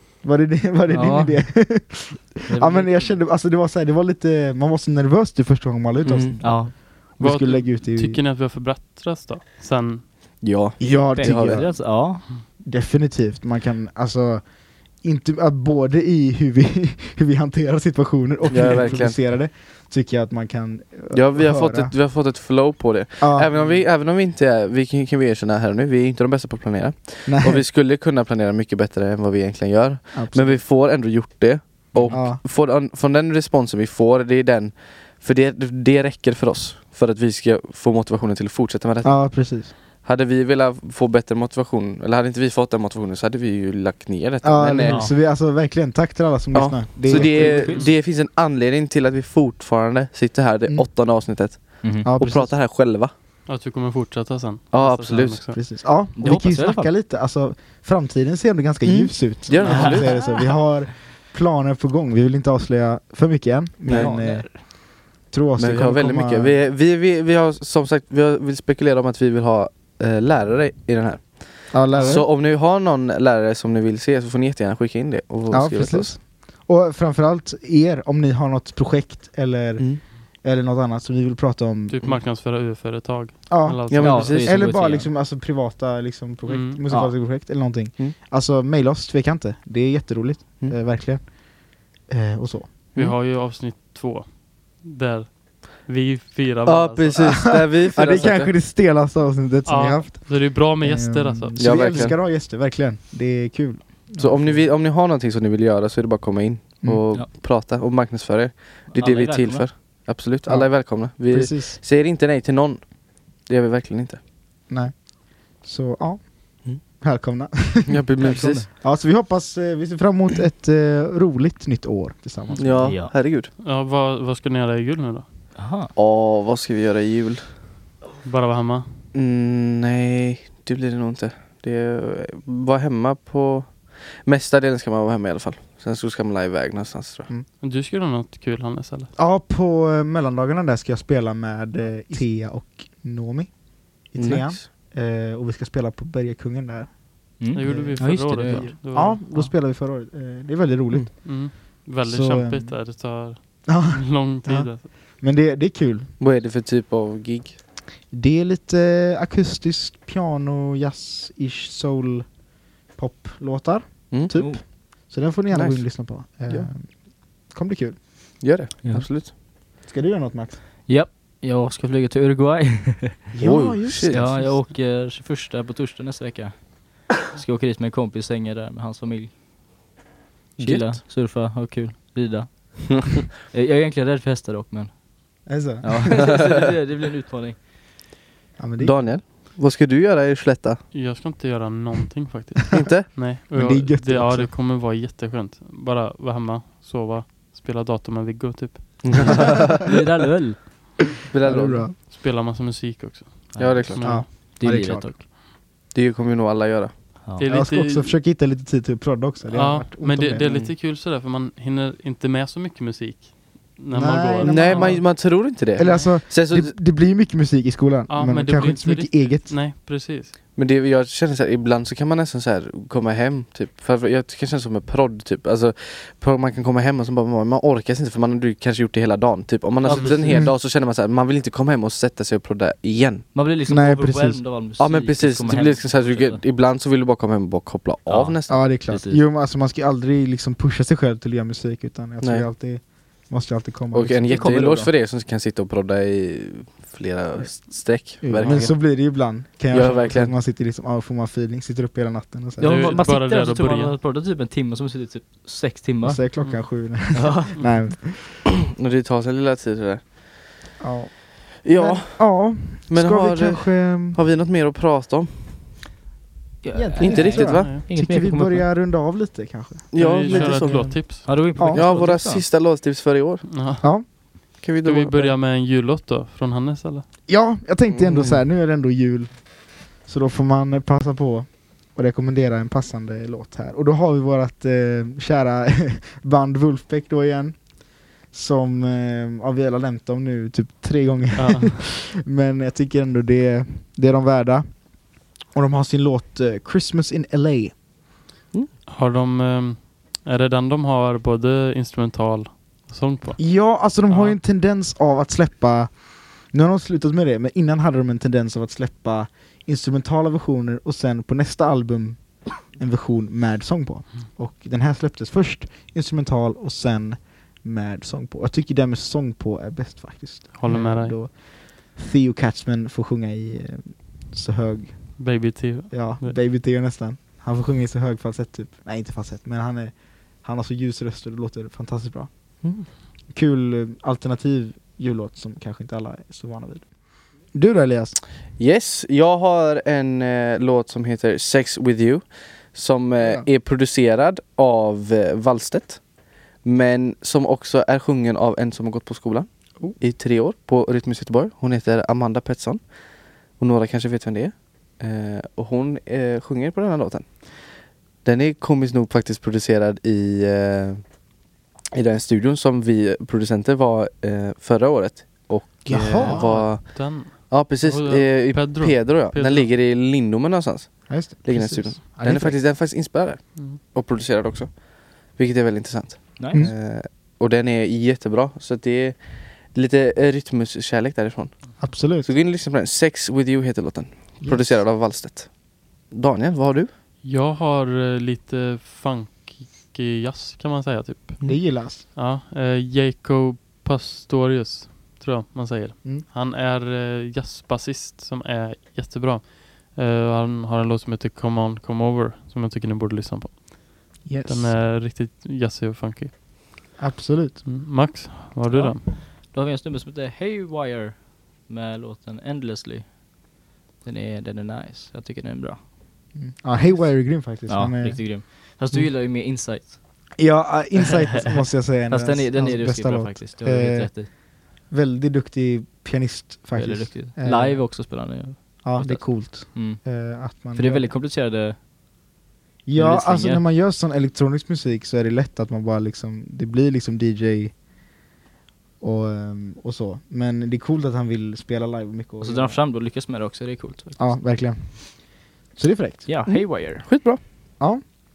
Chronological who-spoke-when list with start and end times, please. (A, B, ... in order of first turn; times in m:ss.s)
0:00.2-0:08.2 A
0:00.9-0:01.8 B
0:02.5-0:03.2 B
0:06.0-0:06.5 C
0:06.4-0:06.8 B
0:07.2-0:10.2 D
0:10.4-0:11.7 C
0:10.8-0:21.9 A
0:11.0-0:12.2 B
0:18.5-0:19.2 C
0:21.1-0:45.1 C
0:23.2-0:23.5 A
0:23.5-0:23.9 D
0:27.2-0:27.6 A
0:30.1-0:30.6 A
0:32.1-0:32.4 A
0:39.0-0:39.7 A
0:44.4-0:47.7 A
0:44.8-0:45.1 B
0:46.5-0:53.1 C
0:47.0-0:47.9 B
0:47.6-0:48.0 D
0:50.7-0:52.5 A
0:51.8-0:52.2 B
0:53.5-0:55.8 D
0:54.7-0:55.5 C
0:55.5-1:06.6 A
0:56.1-0:56.9 B
0:58.8-1:00.2 C
0:59.6-1:00.5 B
1:03.9-1:04.7 B
1:03.9-1:04.2 C
1:05.6-1:16.2 C
1:11.7-1:12.3 A
1:12.0-1:12.2 D
1:15.5-1:22.0 A
1:21.9-1:24.6 D
1:23.5-1:32.8 A
1:23.9-1:24.7 C
1:24.0-1:25.1 B
1:26.5-1:26.9 D
1:27.2-1:28.2 C
1:33.0-1:38.3 D
1:36.7-1:38.6 C
1:37.5-1:44.7 A
1:39.6-1:42.1 D
1:41.6-1:42.2 C
1:44.2-1:54.2 C
1:48.9-1:49.8 B
1:50.4-1:51.8 A
1:54.7-2:03.0 A
1:57.9-1:58.7 C
1:58.2-1:58.7 B
2:02.5-2:03.2 B
2:02.6-2:03.5 C
2:03.6-2:05.3 D
2:05.6-2:05.9 B
2:05.9-2:07.5 C
2:08.2-2:09.0 D
2:09.1-2:17.3 C
2:17.5-2:19.1 D
2:19.2-2:36.1 A
2:24.2-2:24.7 C
2:27.4-2:28.8 B
2:27.5-2:29.5 D
2:31.2-2:34.9 D
2:36.2-2:37.6 C
2:38.1-2:48.4 A
2:44.1-2:45.0 C
2:44.3-2:44.7 B
2:45.5-2:46.7 C
2:48.4-2:49.3 C
2:48.8-2:49.1 B
2:49.8-2:50.6 A
2:50.9-2:53.3 B
2:53.3-2:54.6 A
2:53.4-2:54.4 C
2:54.1-2:59.3 B
3:00.6-3:07.6 B
3:00.6-3:01.0 C
3:02.9-3:03.3 C
3:05.5-3:06.4 A
3:08.6-3:09.2 A
3:08.8-3:10.8 C
3:10.9-3:19.5 D
3:12.7-3:13.1 C
3:13.0-3:14.5 A
3:19.0-3:20.0 C
3:19.1-3:21.2 B
3:21.3-3:22.0 C
3:21.4-3:22.0 A
3:21.9-3:24.4 D
3:23.5-3:25.3 B
3:23.6-3:24.3 C
3:24.0-3:25.2 A
3:25.9-3:27.1 C
3:27.4-3:28.2 D
3:27.5-3:30.5 A
3:29.5-3:35.1 D
3:30.4-3:30.8 C
3:33.9-3:39.7 A
3:34.4-3:36.8 C
3:35.8-3:36.2 D
3:38.1-3:40.4 D
3:40.5-3:53.3 C
3:49.8-3:50.5 B
3:49.9-3:50.3 D
3:50.3-3:50.6 A
3:53.3-3:56.4 B
3:53.7-3:54.6 A
3:54.8-3:58.8 C
3:58.1-3:59.2 B
3:58.5-4:04.5 A
4:02.2-4:02.5 C
4:03.9-4:09.2 C
4:04.3-4:04.9 B
4:07.4-4:13.0 A
4:08.4-4:08.8 B
4:09.7-4:10.3 C
4:12.6-4:16.3 B
4:12.6-4:14.0 D
4:16.0-4:18.4 A
4:16.4-4:16.7 D
4:17.0-4:17.5 B
4:17.5-4:17.8 D
4:18.8-4:20.4 C
4:20.8-4:24.2 A
4:21.6-4:25.6 C
4:26.6-4:28.7 B
4:26.7-4:32.0 A
4:27.0-4:27.8 C
4:27.5-4:27.9 D
4:29.9-4:31.0 C
4:29.9-4:31.5 D
4:31.2-4:32.5 B
4:31.6-4:33.4 C
4:33.5-4:37.1 D
4:33.8-4:34.1 A
4:34.6-4:35.3 C
4:37.3-4:57.9 A
4:37.9-4:38.4 C
4:51.4-4:51.9 D
4:58.9-5:04.4 D
5:03.4-5:38.2 A
5:20.6-5:21.2 D
5:25.2-5:26.4 D
5:32.6-5:32.9 C
5:38.6-6:01.2 C
6:01.9-6:26.9 C
6:05.9-6:06.7 A
6:05.9-6:09.7 D
6:11.1-6:12.6 A
6:13.5-6:13.8 D
6:16.4-6:16.7 B
6:21.8-6:22.3 A
6:24.4-6:24.8 A
6:27.2-6:46.4 D
6:31.4-6:31.8 C
6:31.4-6:32.0 A
6:44.2-6:44.8 A
6:47.0-6:48.1 A
6:47.6-6:49.1 D
6:48.7-6:53.5 B
6:54.0-6:55.9 B
6:56.3-6:58.4 A
6:57.0-7:00.2 B
7:00.4-7:11.1 A
7:01.8-7:04.3 B
7:06.8-7:10.2 B
7:10.7-7:11.9 B
7:12.9-7:17.8 A
7:12.9-7:13.6 B
7:19.0-7:22.8 A
7:22.4-7:24.6 B
7:24.2-7:26.4 A
7:26.3-7:27.1 B
7:26.5-7:27.4 C